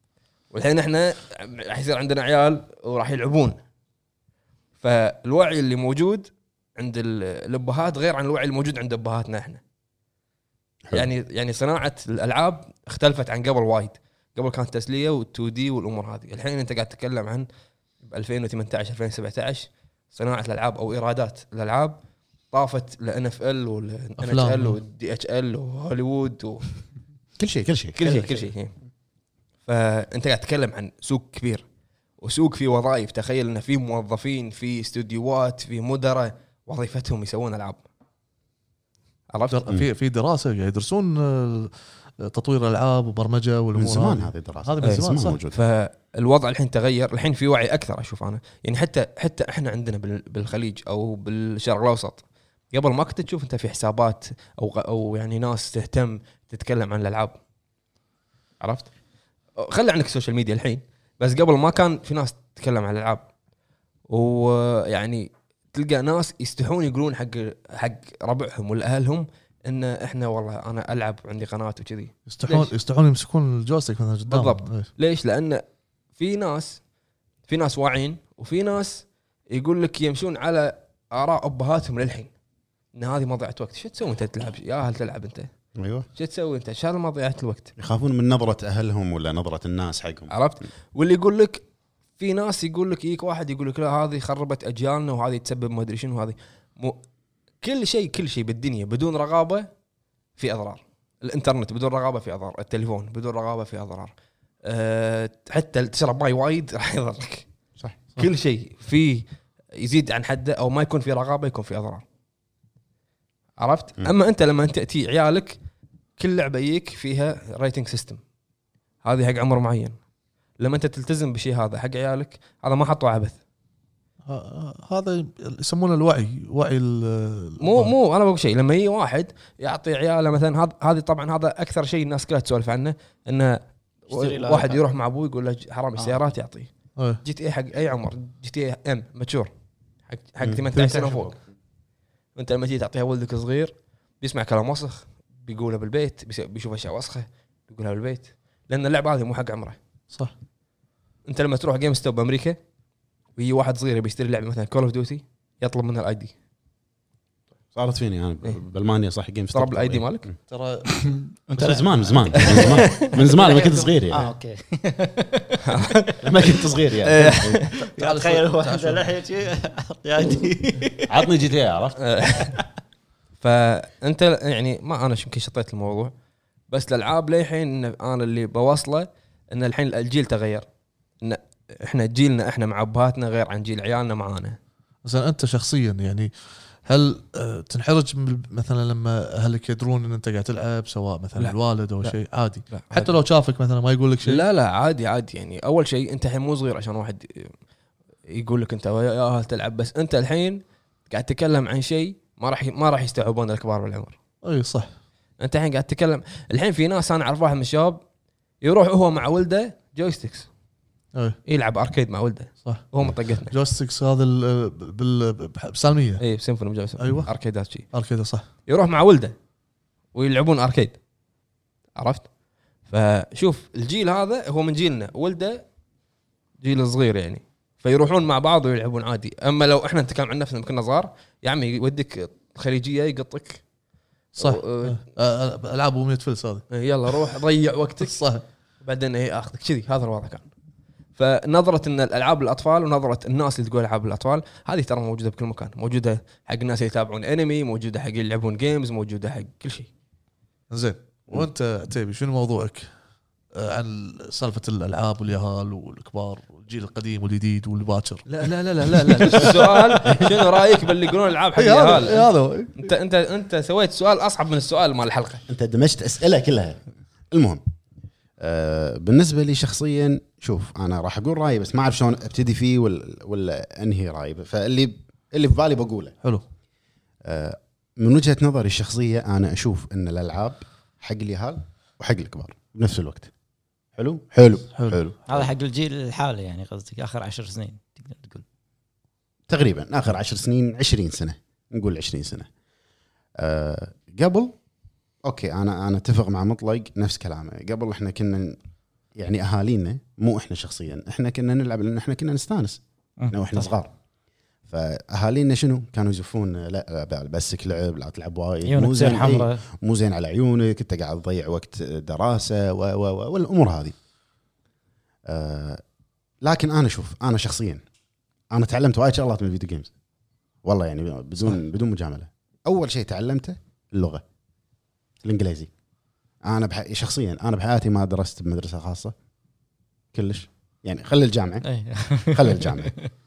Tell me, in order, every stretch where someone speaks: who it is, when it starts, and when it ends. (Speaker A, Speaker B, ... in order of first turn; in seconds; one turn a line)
Speaker A: 0.5-3.6
Speaker A: 4.8-9.6
Speaker A: 10.9-17.5
Speaker A: 18.0-22.0
Speaker A: 22.5-26.7
Speaker B: 24.2-24.8
Speaker C: 27.4-28.0
Speaker A: 28.0-28.8
Speaker D: 28.0-28.5
Speaker A: 29.7-31.6
Speaker A: 32.2-37.8
Speaker A: 39.3-39.6
Speaker B: 39.5-45.4
Speaker C: 43.8-45.6
Speaker A: 44.8-57.4
Speaker A: 58.6-58.9
Speaker A: 59.6-63.2
Speaker A: 64.1-72.7
Speaker B: 72.3-74.9
Speaker A: 74.3-75.6
Speaker A: 76.2-76.8
Speaker A: 77.5-82.3
Speaker A: 82.9-85.5
Speaker C: 85.8-86.1
Speaker A: 86.2-87.7
Speaker C: 87.8-90.3
Speaker A: 90.3-91.6
Speaker A: 92.2-97.0
Speaker A: 97.6-99.7
Speaker A: 100.4-107.5
Speaker A: 108.2-112.0
Speaker A: 113.6-115.6
Speaker A: 116.2-118.2
Speaker A: 119.0-120.0
Speaker A: 120.6-123.4
Speaker B: 124.3-127.9
Speaker A: 127.6-136.7
Speaker D: 134.1-134.8
Speaker B: 137.0-137.2
Speaker A: 137.2-139.5
Speaker A: 140.1-141.3
Speaker C: 140.4-141.4
Speaker A: 142.4-149.8
Speaker A: 151.3-152.6
Speaker A: 153.4-156.3
Speaker C: 157.7-160.4
Speaker A: 159.5-160.3
Speaker B: 160.5-160.9
Speaker D: 160.9-166.5
Speaker C: 161.6-164.3
Speaker A: 162.4-163.6
Speaker A: 165.7-166.1
Speaker C: 166.2-167.6
Speaker A: 167.0-167.7
Speaker B: 167.8-169.1
Speaker D: 167.9-171.2
Speaker C: 171.1-172.0
Speaker A: 172.0-172.6
Speaker A: 173.4-176.1
Speaker A: 176.7-180.7
Speaker A: 181.2-184.6
Speaker B: 185.0-186.3
Speaker B: 186.9-194.4
Speaker A: 191.4-192.2
Speaker A: 192.7-193.1
Speaker A: 194.2-197.5
Speaker A: 198.3-204.2
Speaker B: 204.4-204.9
Speaker A: 205.4-208.0
Speaker A: 208.6-210.5
Speaker A: 211.5-213.5
Speaker B: 213.5-216.2
Speaker A: 216.2-217.9
Speaker B: 217.0-217.3
Speaker B: 217.9-218.4
Speaker A: 218.7-219.3
Speaker A: 220.1-221.0
Speaker A: 222.0-222.3
Speaker A: 222.9-225.7
Speaker A: 226.6-233.6
Speaker B: 234.4-236.7
Speaker A: 234.4-235.0
Speaker A: 236.7-238.2
Speaker B: 238.0-238.4
Speaker A: 238.8-240.5
Speaker A: 241.2-249.9
Speaker B: 250.7-252.9
Speaker B: 253.6-260.4
Speaker A: 258.3-265.4
Speaker B: 261.6-262.8
Speaker C: 265.5-267.6
Speaker C: 268.4-276.1
Speaker C: 277.2-283.3
Speaker C: 284.0-285.5
Speaker B: 284.8-285.0
Speaker D: 285.3-288.4
Speaker C: 289.5-292.5
Speaker C: 293.4-294.6
Speaker C: 295.2-298.6
Speaker C: 299.1-303.9
Speaker D: 303.2-303.7
Speaker C: 304.7-313.9
Speaker D: 308.6-309.6
Speaker C: 315.3-315.8
Speaker C: 316.4-317.8
Speaker C: 318.5-319.9
Speaker C: 320.6-324.2
Speaker C: 325.2-325.7
Speaker C: 326.4-329.1
Speaker C: 330.1-331.7
Speaker D: 331.6-333.0
Speaker C: 332.2-332.9